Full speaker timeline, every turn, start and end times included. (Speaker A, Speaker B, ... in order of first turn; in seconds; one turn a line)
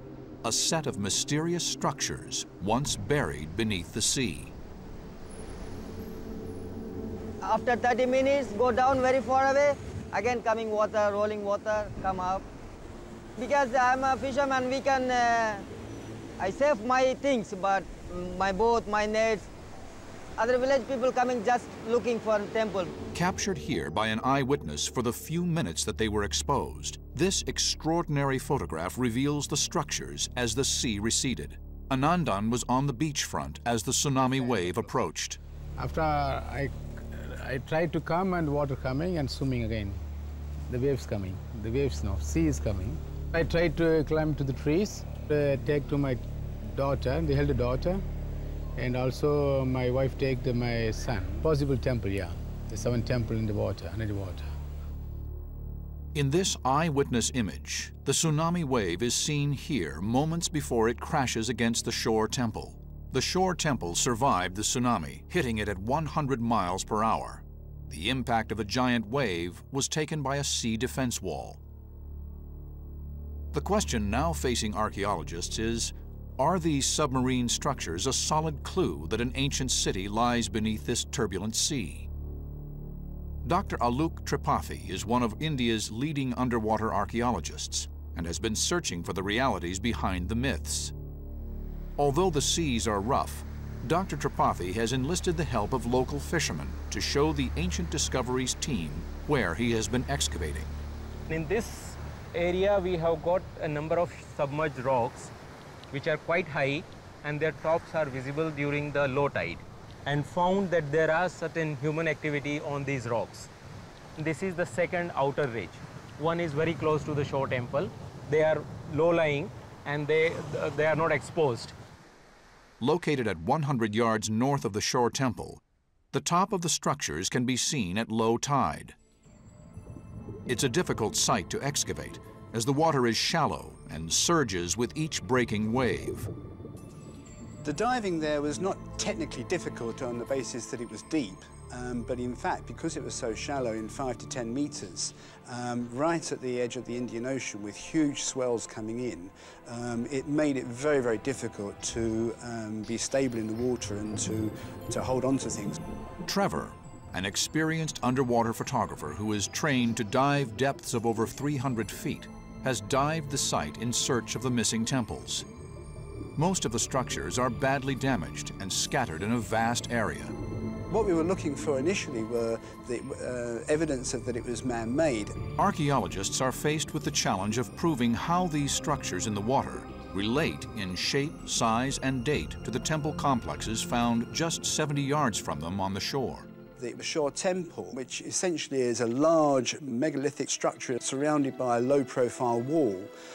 Speaker A: 0.4-4.5
Speaker B: 7.4-12.4
Speaker B: 13.4-15.6
Speaker B: 16.4-19.5
Speaker B: 20.4-22.9
Speaker A: 23.1-35.4
Speaker C: 35.8-40.0
Speaker C: 40.7-48.0
Speaker C: 48.8-54.5
Speaker A: 56.1-71.6
Speaker A: 73.5-82.1
Speaker A: 83.4-90.9
Speaker A: 92.0-100.7
Speaker D: 101.4-101.7
Speaker D: 102.4-105.3
Speaker D: 105.9-113.5
Speaker D: 114.2-118.5
Speaker D: 119.0-120.2
Speaker D: 120.8-121.7
Speaker A: 122.8-125.6
Speaker A: 126.1-128.9
Speaker A: 130.5-136.3
Speaker E: 137.6-155.8
Speaker A: 156.3-165.4
Speaker A: 166.4-170.3
Speaker E: 170.9-175.3
Speaker A: 175.6-186.5
Speaker E: 186.8-193.1